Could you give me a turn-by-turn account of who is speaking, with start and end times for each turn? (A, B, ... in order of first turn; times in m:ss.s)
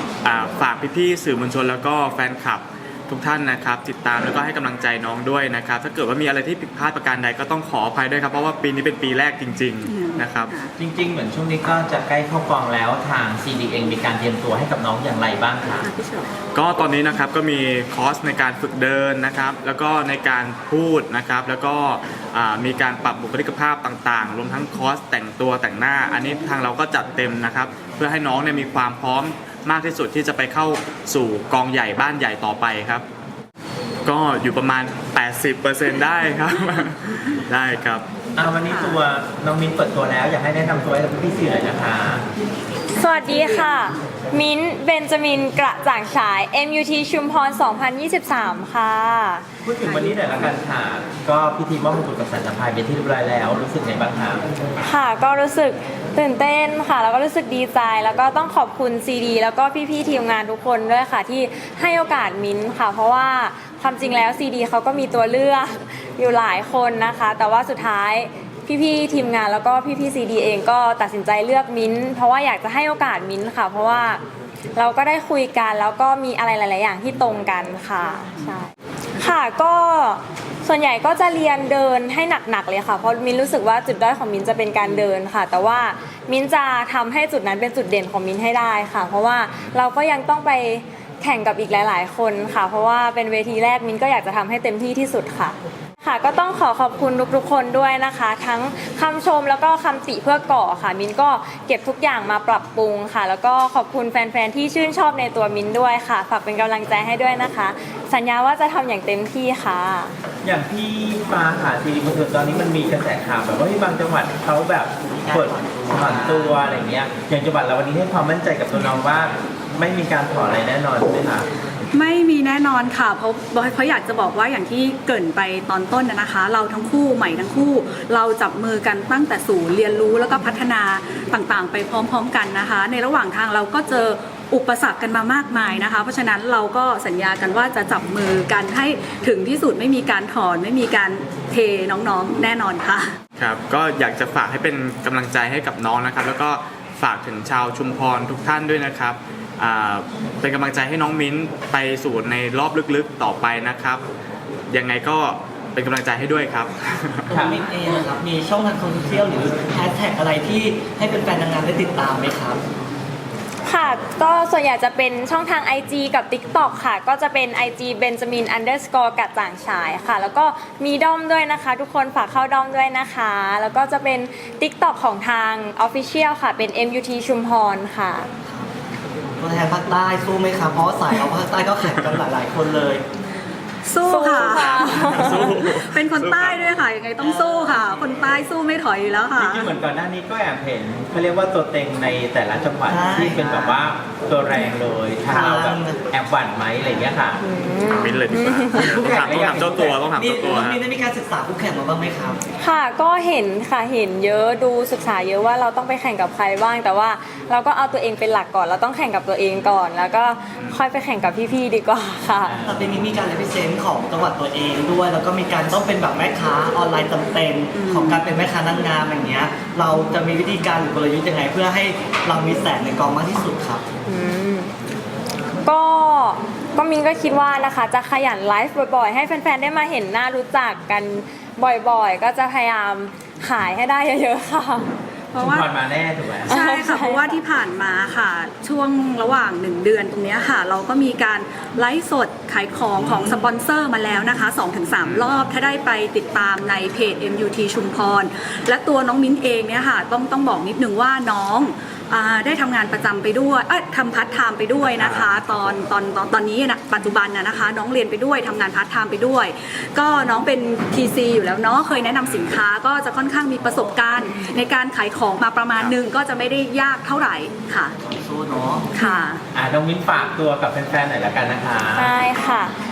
0:00.2-0:10.5 A
0:09.8-0:10.7 B
0:10.8-0:15.9 C
0:15.8-0:16.3 B
0:16.5-0:33.0 A
0:34.0-0:38.0 A
0:38.4-0:42.3 C
0:38.4-0:39.0 B
0:43.0-0:49.5 D
0:43.0-0:43.8 B
0:49.6-0:54.4 C
0:49.8-0:50.2 B
0:54.9-1:14.2 D
1:14.8-1:50.1 D
1:50.4-2:01.5 C
1:55.1-1:56.7 E
2:01.9-2:23.2 B
2:23.4-2:34.0 A
2:34.7-2:37.3 A
2:37.3-2:42.6 E
2:37.3-2:37.6 C
2:43.7-2:58.3 D
2:59.4-3:03.0 E
3:03.8-3:09.7 B
3:04.0-3:05.2 D
3:04.3-3:06.6 A
3:09.4-3:17.4 C
3:12.9-3:13.9 E
3:15.3-3:16.0 E
3:17.4-3:18.8 D
3:17.8-3:20.8 A
3:18.7-3:19.7 C
3:18.9-3:22.4 E
3:22.6-3:32.5 D
3:32.4-3:33.2 C
3:32.6-3:43.8 E
3:37.7-3:38.2 B
3:44.1-3:44.7 D
3:45.6-3:54.9 D
3:55.3-3:55.7 B
3:55.4-3:56.6 C
3:56.5-4:28.0 B
3:56.5-3:57.3 D
4:05.0-4:05.3 A
4:14.8-4:15.4 A
4:28.0-4:28.9 E
4:28.9-4:29.4 B
4:29.5-4:32.2 C
4:32.0-4:32.8 D